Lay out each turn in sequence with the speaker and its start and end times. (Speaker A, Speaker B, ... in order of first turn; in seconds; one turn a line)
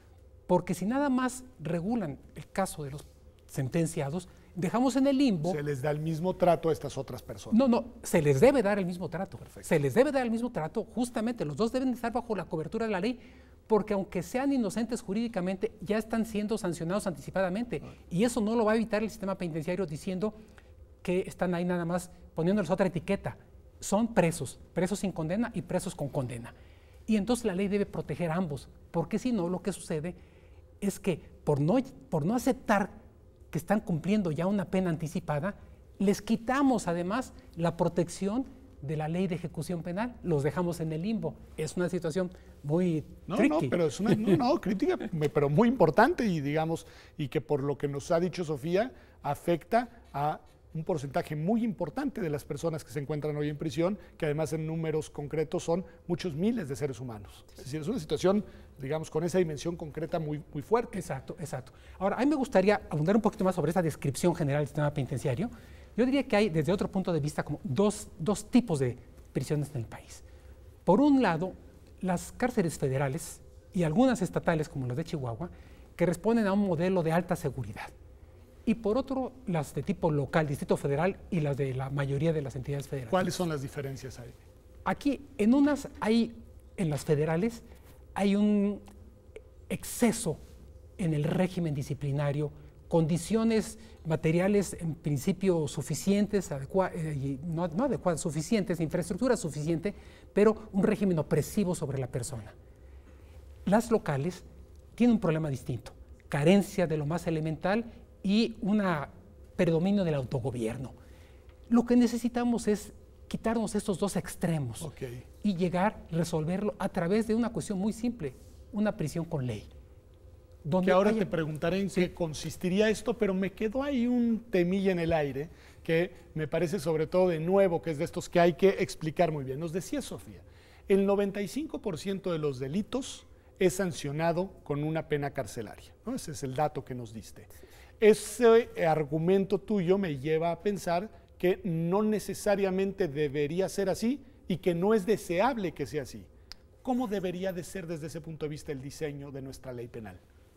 Speaker A: 0.5-5.6
Speaker B: 5.4-7.6
Speaker A: 7.5-20.3
Speaker A: 21.0-26.5
Speaker A: 27.1-30.2
Speaker A: 30.8-32.9
Speaker A: 33.5-44.4
Speaker B: 43.3-61.0
Speaker A: 60.9-70.2
Speaker A: 70.8-77.9
Speaker A: 78.7-83.4
Speaker B: 83.1-84.3
Speaker A: 84.8-87.6
Speaker A: 88.1-88.8
Speaker A: 89.7-90.4
Speaker A: 91.0-102.5
Speaker A: 103.6-104.4
Speaker A: 105.0-110.9
Speaker A: 111.7-114.9
Speaker B: 114.8-115.2
Speaker A: 115.4-119.7
Speaker A: 120.6-121.3
Speaker B: 120.8-146.3
Speaker B: 146.8-150.2